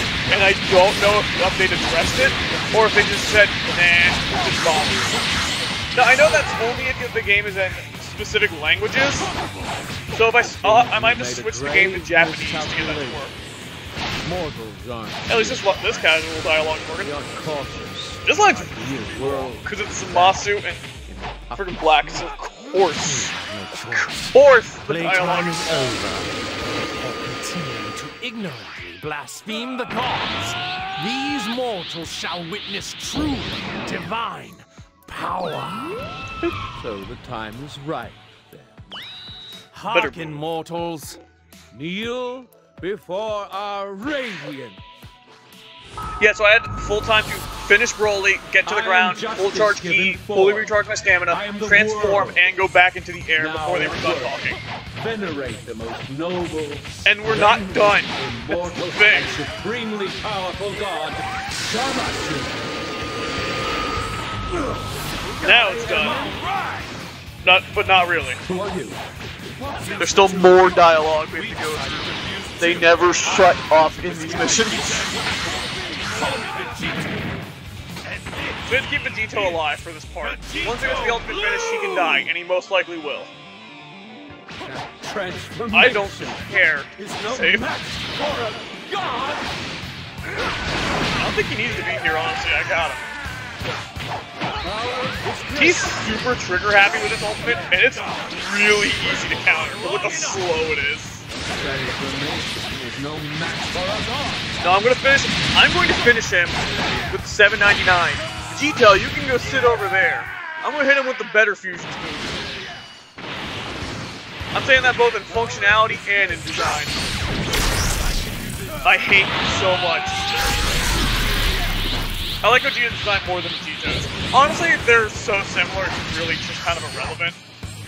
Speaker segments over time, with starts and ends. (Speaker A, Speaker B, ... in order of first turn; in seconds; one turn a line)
Speaker A: 0.3-5.1
Speaker A: 5.9-9.3
Speaker A: 10.1-13.3
Speaker B: 10.4-13.3
Speaker B: 14.2-15.6
Speaker A: 15.3-17.1
Speaker B: 17.0-22.2
Speaker A: 18.2-20.8
Speaker A: 21.5-23.3
Speaker C: 22.8-26.4
Speaker A: 24.3-25.9
Speaker C: 27.0-36.0
Speaker B: 36.7-39.0
Speaker C: 39.7-41.2
Speaker A: 39.9-40.3
Speaker B: 41.7-44.8
Speaker A: 46.2-54.6
Speaker B: 48.6-52.4
Speaker B: 53.4-62.7
Speaker A: 57.0-59.4
Speaker A: 65.4-66.3
Speaker B: 65.4-66.4
Speaker C: 65.9-66.7
Speaker A: 67.4-68.4
Speaker B: 68.5-69.0
Speaker B: 69.5-70.7
Speaker A: 70.0-75.1
Speaker C: 70.2-70.7
Speaker C: 71.3-77.3
Speaker B: 73.2-77.0
Speaker C: 78.2-78.7
Speaker A: 78.7-83.3
Speaker C: 80.2-82.3
Speaker B: 84.6-89.5
Speaker A: 85.7-87.7
Speaker A: 91.2-93.0
Speaker B: 94.6-95.9
Speaker A: 95.5-101.2
Speaker C: 99.7-100.4
Speaker B: 101.3-104.5
Speaker A: 104.6-112.4
Speaker A: 114.5-117.0
Speaker A: 118.8-120.5
Speaker A: 122.4-127.4